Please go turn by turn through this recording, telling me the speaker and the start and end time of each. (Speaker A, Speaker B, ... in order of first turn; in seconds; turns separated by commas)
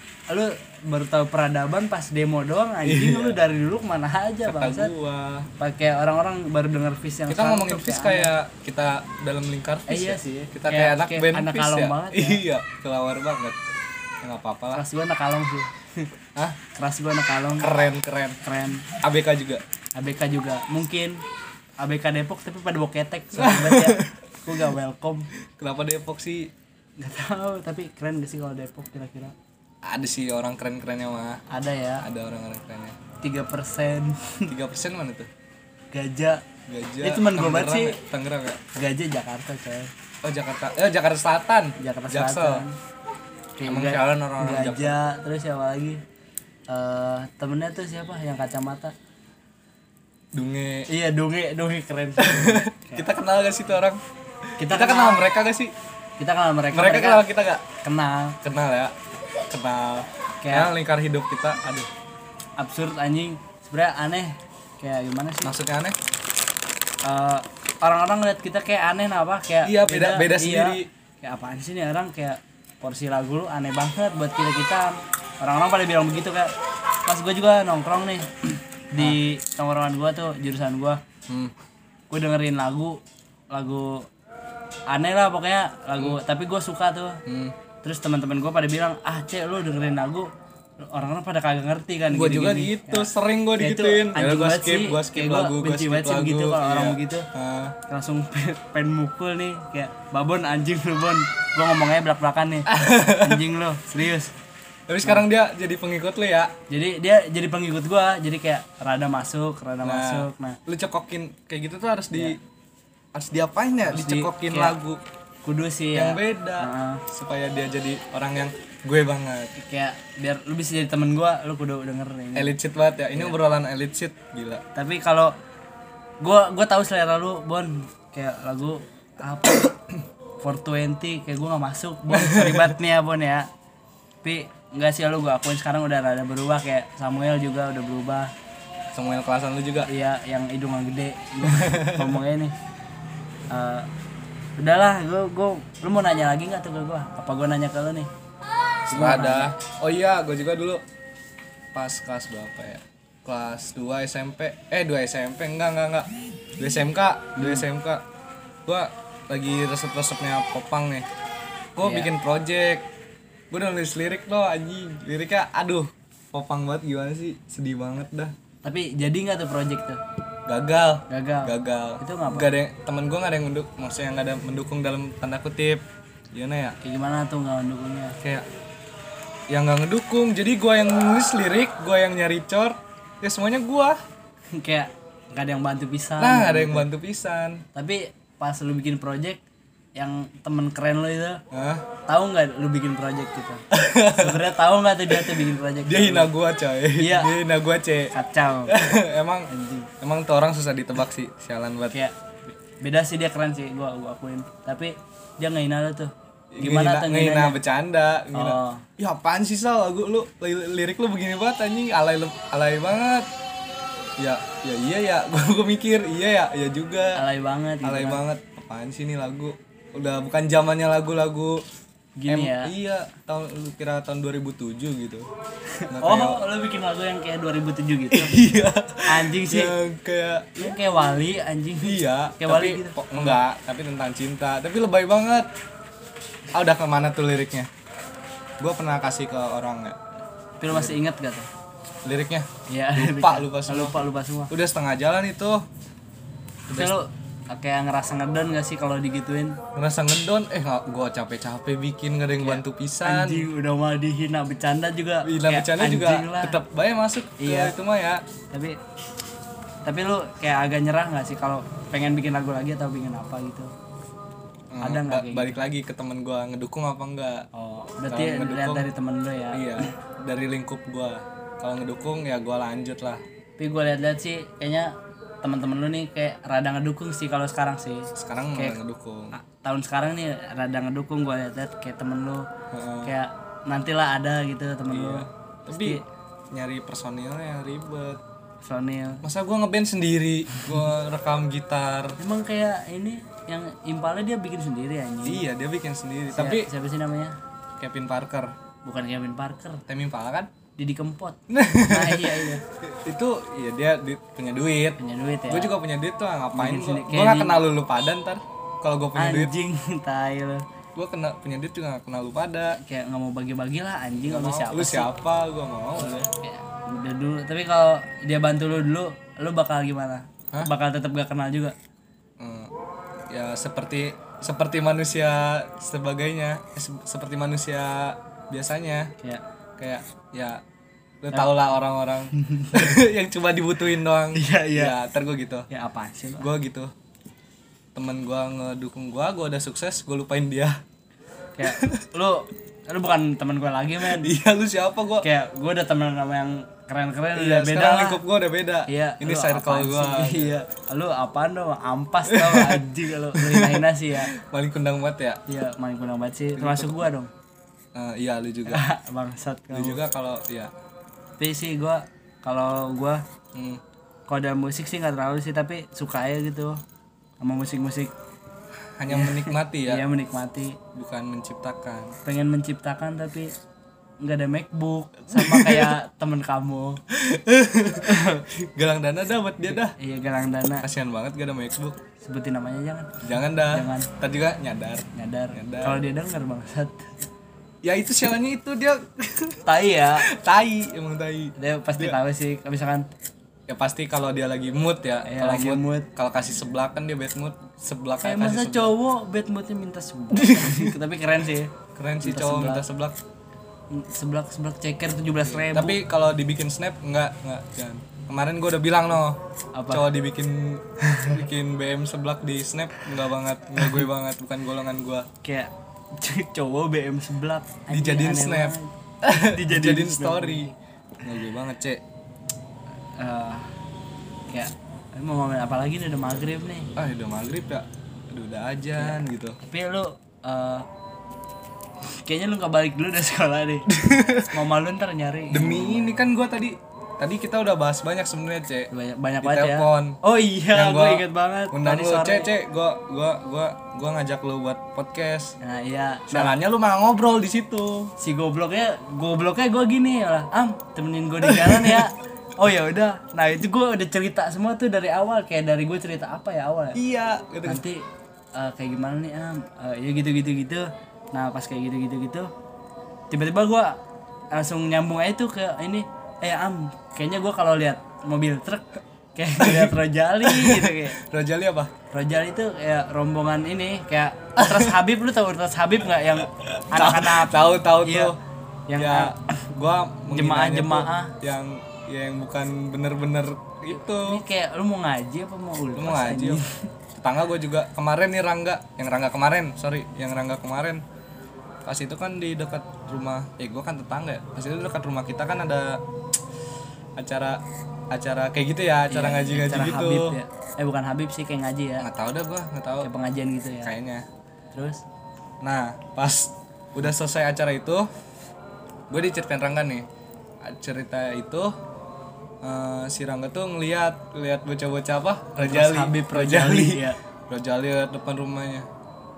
Speaker A: 0.3-4.9, Speaker B: 2.8-3.4, Speaker B: 4.4-5.5, Speaker A: 5.6-8.3, Speaker B: 7.3-13.6, Speaker A: 9.9-12.4, Speaker B: 14.2-14.8, Speaker A: 14.7-16.1, Speaker A: 16.7-17.7, Speaker B: 17.6-18.4, Speaker A: 18.4-18.9, Speaker B: 19.0-19.6, Speaker A: 19.9-21.2, Speaker A: 21.8-25.3, Speaker B: 23.3-24.2, Speaker B: 25.6-26.5, Speaker A: 27.0-29.3, Speaker B: 29.8-31.4, Speaker A: 31.5-32.0, Speaker B: 32.0-33.0, Speaker A: 33.2-34.5, Speaker B: 34.5-35.3, Speaker A: 35.9-36.4, Speaker B: 36.7-38.6, Speaker A: 37.0-38.0, Speaker A: 38.7-39.9, Speaker B: 40.2-42.6, Speaker A: 41.8-42.8, Speaker A: 43.6-46.0, Speaker B: 43.6-45.0, Speaker A: 46.7-48.9, Speaker B: 50.3-50.9, Speaker A: 50.9-53.1, Speaker B: 52.2-54.0, Speaker B: 54.6-55.7, Speaker A: 54.6-55.2, Speaker A: 56.2-57.2, Speaker B: 56.7-57.6, Speaker A: 57.8-58.4, Speaker B: 58.4-58.9, Speaker B: 59.5-61.9, Speaker A: 60.4-60.7, Speaker A: 62.6-65.5, Speaker B: 65.4-66.0, Speaker A: 67.0-76.5, Speaker B: 69.6-70.9, Speaker A: 77.0-81.0, Speaker B: 81.3-81.5, Speaker A: 82.1-84.1, Speaker A: 84.9-87.2, Speaker B: 87.2-87.5, Speaker A: 87.8-90.3, Speaker A: 90.8-97.3, Speaker B: 92.1-97.7, Speaker A: 97.9-104.3, Speaker B: 102.7-103.5, Speaker B: 104.9-106.5, Speaker A: 106.7-110.6, Speaker B: 109.8-112.4, Speaker B: 113.1-115.0, Speaker A: 113.8-114.8, Speaker A: 115.4-117.0, Speaker B: 115.9-119.5, Speaker A: 119.5-122.5, Speaker B: 122.3-124.6, Speaker A: 124.7-125.3, Speaker A: 126.2-129.7, Speaker A: 130.4-133.5, Speaker B: 132.1-132.7, Speaker A: 134.2-138.3, Speaker B: 138.9-139.9, Speaker A: 139.8-142.5, Speaker B: 141.4-142.2, Speaker A: 143.5-143.9, Speaker A: 144.6-148.1, Speaker B: 148.9-150.8, Speaker A: 148.9-149.5, Speaker B: 151.7-158.0, Speaker A: 157.4-157.6, Speaker B: 158.7-161.1, Speaker B: 161.8-162.8, Speaker A: 161.8-162.1, Speaker B: 163.5-168.3, Speaker A: 168.6-170.0, Speaker B: 170.5-176.8, Speaker A: 171.1-172.5, Speaker A: 176.8-178.2, Speaker B: 179.5-184.0, Speaker A: 184.5-186.9, Speaker B: 186.2-187.6, Speaker A: 187.7-189.4, Speaker A: 189.9-191.4, Speaker B: 191.5-191.8, Speaker A: 192.1-193.6, Speaker B: 193.7-194.5, Speaker A: 194.1-196.3, Speaker B: 195.1-198.1, Speaker A: 197.0-197.3, Speaker A: 198.1-198.8, Speaker B: 198.7-199.5, Speaker A: 199.5-199.9, Speaker B: 200.0-202.0, Speaker A: 202.7-207.6, Speaker B: 206.5-213.3, Speaker A: 208.3-208.8, Speaker B: 214.2-217.2, Speaker A: 217.2-218.2, Speaker B: 217.8-221.6, Speaker A: 222.2-222.7, Speaker B: 222.3-225.3, Speaker A: 225.7-228.4, Speaker B: 225.9-226.4, Speaker B: 228.1-230.7, Speaker A: 229.1-229.7, Speaker A: 230.6-233.4, Speaker B: 231.8-235.5, Speaker B: 236.5-237.7, Speaker B: 238.6-240.0, Speaker A: 240.6-241.5, Speaker B: 240.7-241.0, Speaker B: 242.0-244.0, Speaker A: 242.7-244.5, Speaker B: 244.5-245.7, Speaker B: 246.7-247.0, Speaker A: 246.7-249.6, Speaker B: 249.7-253.5, Speaker A: 252.4-256.6, Speaker B: 255.2-258.2, Speaker A: 257.4-257.7, Speaker A: 258.5-258.8, Speaker A: 259.8-263.7, Speaker B: 264.7-267.5, Speaker A: 264.8-265.6, Speaker A: 267.5-269.9, Speaker B: 268.1-268.9, Speaker B: 269.5-273.2, Speaker A: 273.6-278.8, Speaker B: 278.1-279.3, Speaker A: 279.3-282.5, Speaker B: 282.7-283.1, Speaker A: 283.0-286.0, Speaker B: 284.9-286.0, Speaker B: 286.5-288.2, Speaker A: 288.6-289.2, Speaker B: 289.2-292.2, Speaker A: 292.2-295.4, Speaker B: 295.2-296.7, Speaker A: 296.3-297.4, Speaker B: 297.8-298.5, Speaker A: 298.8-299.8, Speaker B: 299.9-300.5, Speaker A: 300.8-302.6, Speaker B: 301.5-309.5, Speaker A: 305.0-305.7, Speaker A: 306.5-307.6, Speaker A: 309.1-310.6, Speaker B: 310.9-312.8, Speaker A: 312.8-315.1, Speaker B: 314.2-316.3, Speaker A: 316.0-321.7, Speaker B: 322.4-322.7, Speaker B: 323.3-329.1, Speaker B: 329.8-330.6, Speaker B: 331.2-335.7, Speaker A: 332.3-333.0, Speaker A: 334.3-334.9, Speaker A: 335.7-336.5, Speaker B: 336.4-336.9, Speaker B: 337.9-340.8, Speaker A: 341.6-344.3, Speaker B: 341.6-342.1, Speaker B: 344.0-345.3, Speaker A: 345.2-348.2, Speaker B: 347.3-350.5, Speaker A: 348.9-354.3, Speaker B: 352.3-355.4, Speaker A: 355.5-357.3, Speaker B: 356.6-357.1, Speaker B: 357.9-358.8, Speaker A: 358.7-360.0, Speaker B: 359.7-360.7, Speaker A: 361.4-363.2, Speaker B: 363.5-363.8, Speaker A: 364.3-366.8, Speaker A: 367.4-368.1, Speaker B: 369.0-370.0, Speaker A: 369.1-370.8, Speaker B: 370.9-372.1, Speaker A: 372.2-373.5, Speaker A: 374.2-377.0, Speaker B: 375.3-375.9, Speaker B: 377.1-379.9, Speaker A: 378.0-378.4, Speaker A: 379.7-380.9, Speaker B: 380.8-382.0, Speaker A: 382.2-384.1, Speaker B: 383.2-386.0, Speaker A: 385.1-387.1, Speaker B: 387.8-389.6, Speaker A: 389.6-390.2, Speaker B: 390.2-392.2, Speaker A: 391.6-393.1, Speaker B: 393.7-398.9, Speaker A: 395.3-396.1, Speaker A: 398.2-402.8, Speaker B: 400.3-400.9, Speaker B: 401.9-403.2, Speaker A: 403.9-406.0, Speaker B: 405.4-409.4, Speaker A: 409.7-410.1, Speaker B: 409.9-415.3, Speaker A: 411.0-411.4, Speaker A: 415.4-420.7, Speaker B: 417.9-422.0, Speaker A: 423.2-423.7, Speaker A: 424.5-426.9, Speaker B: 426.9-429.6, Speaker A: 429.0-430.9, Speaker A: 432.0-436.2, Speaker B: 433.9-434.6, Speaker B: 435.5-440.2, Speaker A: 438.9-442.5, Speaker B: 440.7-445.6, Speaker A: 445.6-446.6, Speaker B: 446.3-448.1, Speaker A: 448.2-457.0, Speaker B: 451.4-452.1, Speaker B: 456.9-457.8, Speaker A: 457.6-462.5, Speaker A: 463.3-464.0, Speaker A: 464.5-471.2, Speaker B: 469.6-471.9, Speaker A: 472.1-478.3, Speaker B: 474.6-475.0, Speaker B: 476.4-478.3, Speaker A: 478.9-479.6, Speaker B: 478.9-484.4, Speaker A: 480.3-481.3, Speaker A: 484.0-486.8, Speaker B: 485.9-486.6, Speaker B: 487.1-491.0, Speaker B: 491.8-496.0, Speaker B: 497.2-500.4, Speaker A: 499.1-502.1, Speaker B: 502.0-503.1, Speaker A: 503.0-503.9, Speaker B: 503.8-504.2, Speaker A: 504.7-505.0, Speaker B: 505.6-508.1, Speaker B: 509.1-510.0, Speaker B: 510.6-511.7, Speaker B: 512.6-518.9, Speaker A: 515.6-517.2